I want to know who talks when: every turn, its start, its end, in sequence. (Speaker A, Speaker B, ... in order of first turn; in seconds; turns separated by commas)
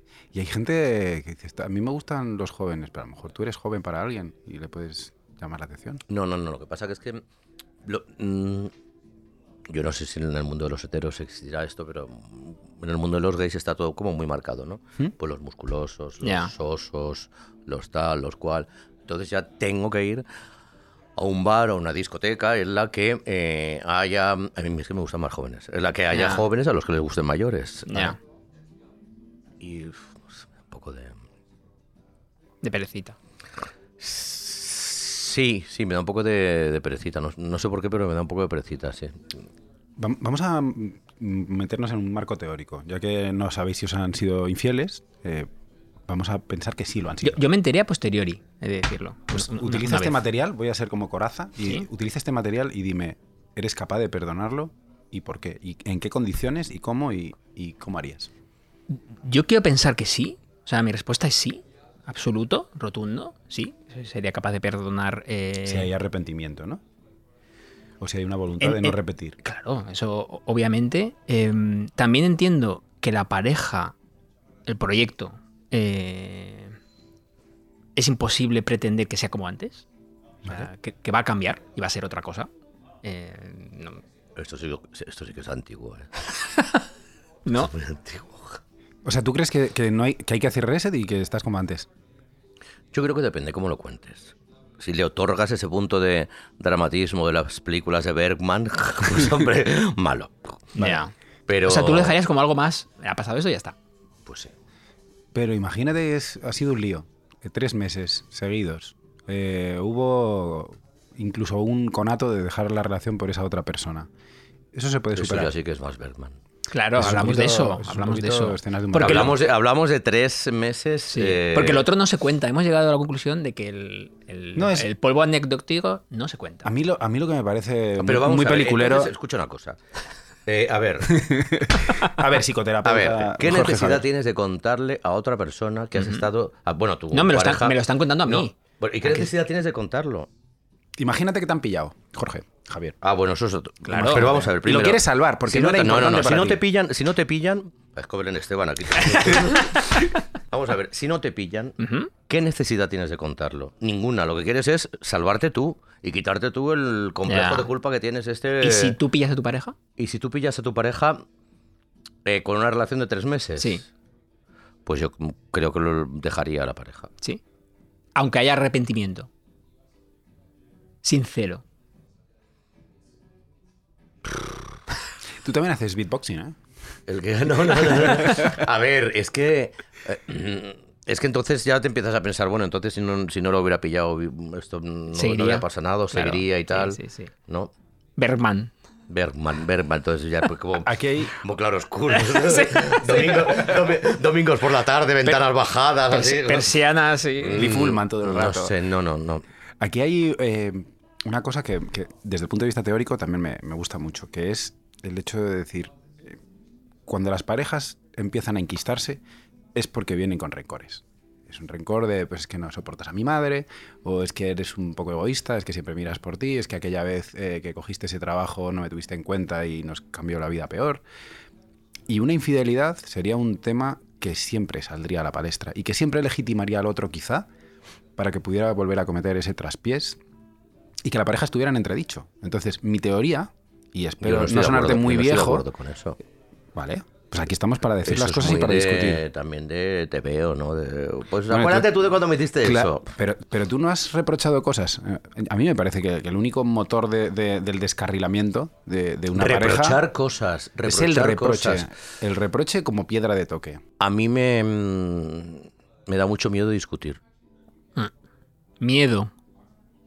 Speaker A: 0.3-6.0, Speaker B: 6.1-7.2, Speaker B: 7.8-8.7, Speaker B: 9.7-20.2, Speaker C: 16.2-16.5, Speaker B: 21.2-28.2, Speaker C: 26.1-26.4, Speaker C: 27.9-28.2, Speaker B: 29.6-31.2, Speaker C: 32.6-33.2, Speaker B: 34.0-39.4, Speaker A: 40.0-45.5, Speaker A: 46.1-47.4, Speaker C: 47.2-50.2, Speaker A: 49.3-58.3, Speaker C: 58.9-65.9, Speaker A: 65.7-66.8, Speaker A: 68.0-69.4, Speaker C: 68.6-74.0, Speaker C: 74.7-76.8, Speaker C: 78.0-79.9, Speaker C: 80.5-82.5, Speaker C: 83.0-84.0, Speaker B: 84.4-86.4, Speaker C: 87.5-87.7, Speaker B: 87.5-88.6, Speaker A: 89.0-91.9, Speaker B: 92.9-100.6, Speaker C: 100.8-101.1, Speaker B: 101.5-102.2, Speaker C: 101.7-103.8, Speaker B: 104.3-104.5, Speaker A: 105.3-114.1, Speaker A: 114.7-115.5, Speaker B: 115.2-116.4, Speaker C: 116.7-119.3, Speaker A: 117.0-119.4, Speaker B: 119.0-121.9, Speaker C: 121.1-126.7, Speaker A: 124.6-124.9, Speaker A: 126.6-129.1, Speaker B: 128.0-129.8, Speaker B: 130.5-131.3, Speaker A: 131.1-134.1, Speaker B: 132.8-140.3, Speaker C: 136.0-136.3, Speaker C: 137.1-139.3, Speaker A: 141.0-142.9, Speaker B: 143.0-151.8, Speaker C: 143.9-144.5, Speaker A: 144.0-146.6, Speaker C: 151.8-152.1, Speaker B: 152.3-159.0, Speaker C: 157.3-157.7, Speaker C: 158.6-159.8, Speaker B: 160.0-161.2, Speaker B: 162.2-163.8, Speaker B: 164.9-167.1, Speaker C: 168.2-169.3, Speaker C: 171.0-171.6, Speaker A: 175.4-176.6, Speaker B: 177.1-187.7, Speaker C: 185.1-187.3, Speaker C: 188.2-188.7, Speaker B: 189.1-196.8, Speaker A: 190.8-191.4, Speaker C: 192.2-193.4, Speaker C: 196.1-197.7, Speaker B: 197.4-199.4, Speaker A: 197.5-198.8, Speaker A: 199.8-206.4, Speaker A: 207.1-209.2, Speaker A: 209.8-221.0, Speaker A: 222.1-227.5, Speaker A: 228.2-230.2, Speaker A: 231.0-235.7, Speaker B: 234.2-236.2, Speaker A: 236.7-239.2, Speaker B: 238.1-243.1, Speaker A: 241.5-242.0, Speaker A: 242.6-250.0, Speaker B: 249.3-251.9, Speaker A: 250.8-253.8, Speaker B: 254.0-257.2, Speaker C: 258.8-259.3